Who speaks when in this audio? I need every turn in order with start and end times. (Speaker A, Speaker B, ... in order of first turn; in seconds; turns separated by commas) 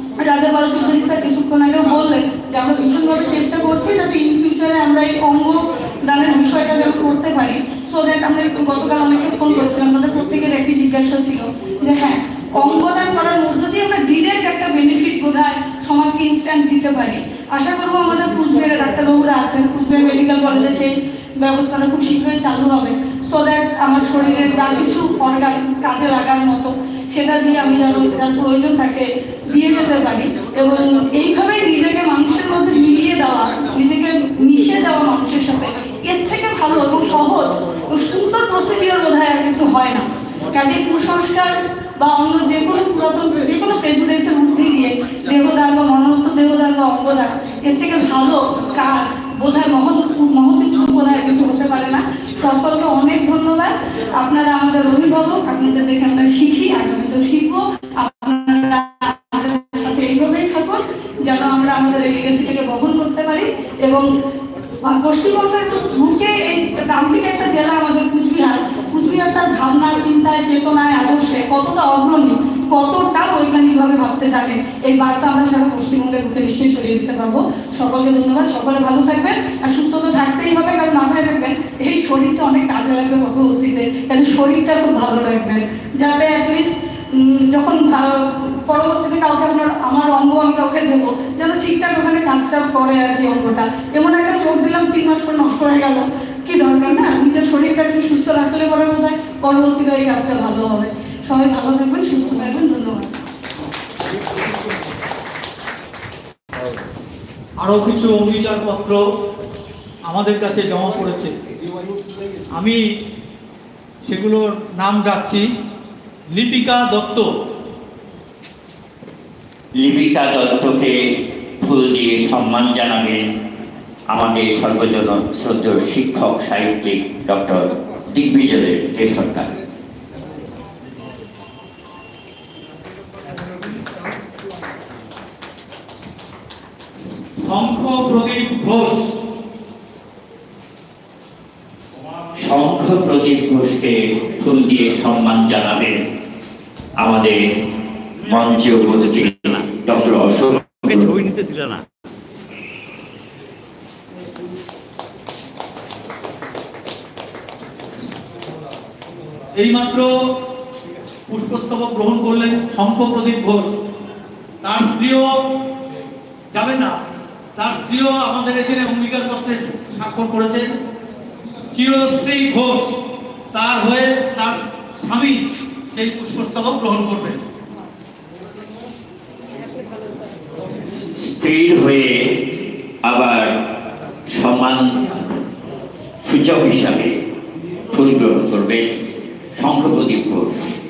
Speaker A: 0.2-64.1, Speaker A: 64.8-103.2, Speaker B: 107.6-109.0, Speaker B: 110.1-111.3, Speaker B: 112.5-112.8, Speaker B: 114.0-115.5, Speaker B: 116.3-117.3, Speaker C: 119.8-121.0, Speaker C: 121.6-123.3, Speaker C: 124.1-129.5, Speaker B: 137.4-139.1, Speaker C: 142.4-146.0, Speaker C: 147.0-147.4, Speaker D: 148.2-149.7, Speaker C: 148.2-151.1, Speaker D: 150.8-151.8, Speaker B: 159.6-160.1, Speaker B: 161.3-163.8, Speaker B: 164.6-165.4, Speaker B: 166.5-166.9, Speaker B: 167.6-170.7, Speaker B: 171.7-177.4, Speaker C: 181.2-182.3, Speaker C: 183.0-183.5, Speaker C: 184.3-185.1, Speaker C: 186.2-187.1, Speaker C: 187.9-188.9, Speaker C: 189.6-190.6